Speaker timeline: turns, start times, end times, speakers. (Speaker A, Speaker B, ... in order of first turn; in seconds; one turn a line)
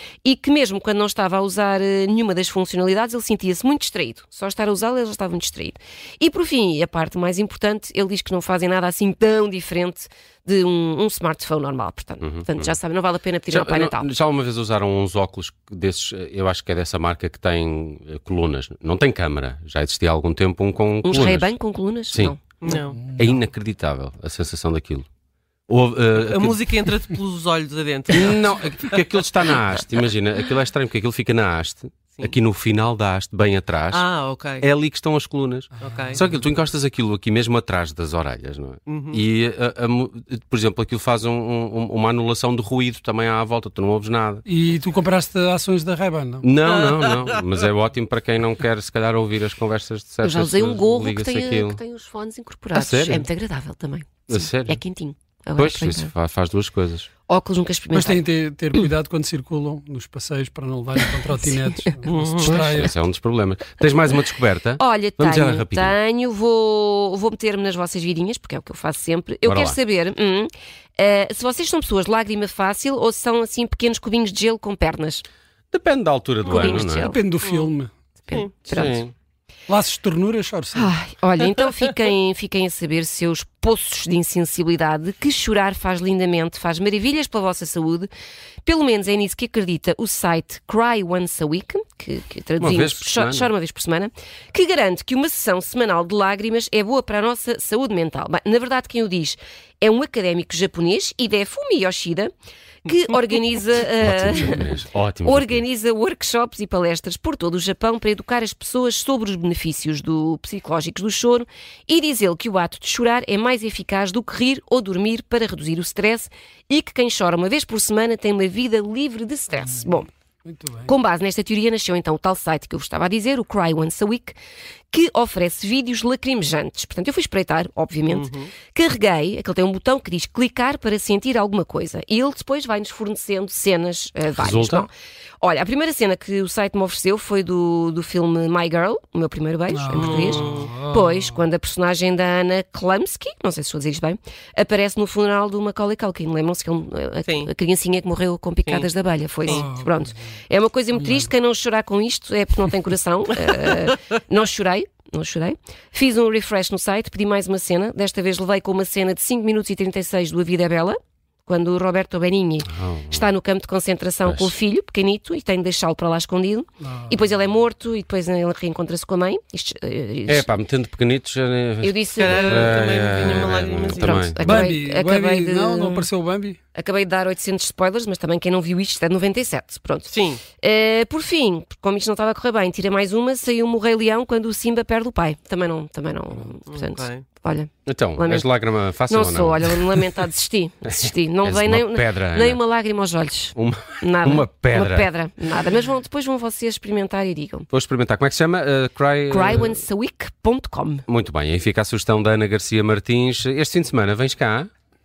Speaker A: 0.2-14.1
Speaker B: 12.2-12.8
Speaker B: 13.5-21.5
Speaker A: 21.0-22.4
Speaker C: 22.6-23.1
Speaker B: 23.1-25.1
Speaker B: 25.7-26.8
Speaker C: 26.2-29.0
Speaker B: 28.1-34.1
Speaker C: 33.9-34.7
Speaker B: 34.6-44.5
Speaker D: 35.8-36.4
Speaker C: 35.8-36.2
Speaker C: 38.9-39.2
Speaker D: 44.5-46.5
Speaker B: 46.4-51.8
Speaker C: 46.7-47.4
Speaker A: 50.2-56.1
Speaker B: 52.7-53.3
Speaker B: 54.3-54.8
Speaker B: 55.6-57.1
Speaker A: 57.3-58.2
Speaker D: 57.9-62.9
Speaker A: 61.4-61.8
Speaker C: 62.0-62.7
Speaker B: 62.5-66.0
Speaker A: 64.8-75.2
Speaker B: 69.4-69.8
Speaker B: 75.7-77.1
Speaker A: 76.5-77.2
Speaker D: 76.5-77.9
Speaker C: 77.4-77.7
Speaker A: 78.3-79.1
Speaker B: 78.7-79.1
Speaker D: 79.7-80.9
Speaker A: 80.7-88.1
Speaker A: 88.7-102.3
Speaker B: 92.6-93.5
Speaker A: 102.8-120.1
Speaker B: 104.0-105.6
Speaker D: 120.5-120.9
Speaker A: 120.9-124.4
Speaker A: 124.9-170.5
Speaker C: 128.1-128.5
Speaker B: 134.4-134.9
Speaker D: 139.7-141.4
Speaker C: 139.9-140.7
Speaker C: 147.2-147.5
Speaker D: 149.5-150.1
Speaker D: 150.9-151.3
Speaker B: 162.7-163.3
Speaker B: 164.3-164.5
Speaker D: 166.8-167.1
Speaker B: 170.3-174.7
Speaker A: 171.8-176.1
Speaker C: 172.2-174.2
Speaker D: 174.4-176.6
Speaker A: 176.8-188.5
Speaker C: 180.1-180.4
Speaker C: 186.7-187.2
Speaker B: 187.9-190.2
Speaker A: 189.1-197.7
Speaker B: 190.9-192.6
Speaker B: 193.6-195.1
Speaker B: 197.7-199.8
Speaker A: 199.3-201.0
Speaker B: 201.1-204.7